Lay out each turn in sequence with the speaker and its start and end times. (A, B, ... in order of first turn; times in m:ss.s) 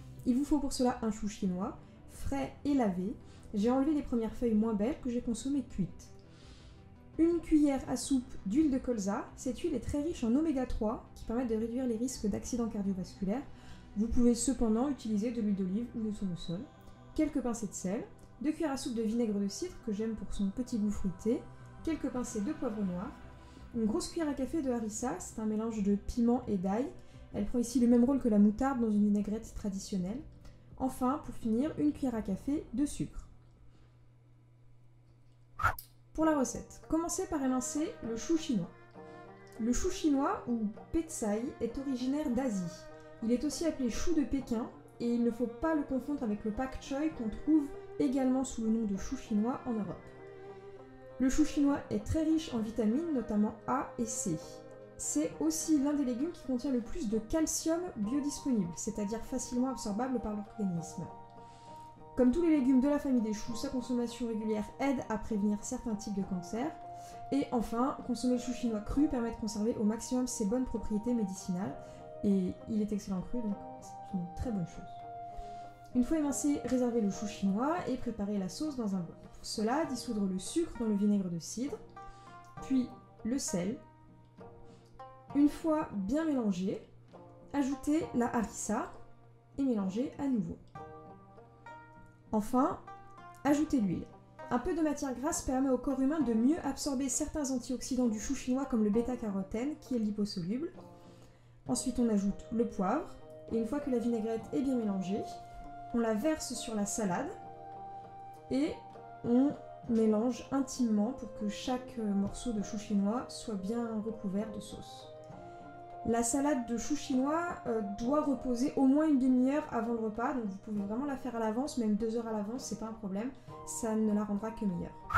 0:00.2-0:06.1 A
0:07.2-0:23.2 A
0:23.7-0:30.2 A
0:30.8-0:33.3 A
0:36.1-0:38.7 A
0:39.6-0:50.1 A
0:51.2-1:01.1 A
1:02.1-1:06.8 A
1:07.3-1:15.0 A
1:15.9-1:21.8 A
1:22.6-1:23.8 A
1:25.3-1:26.8 A
1:27.5-1:28.9 A
1:29.6-1:30.6 A
1:32.3-1:32.8 A
1:33.4-1:40.7 A
1:41.7-1:45.4 A
1:45.9-1:47.3 A
1:48.5-1:55.1 A
1:56.0-2:05.0 A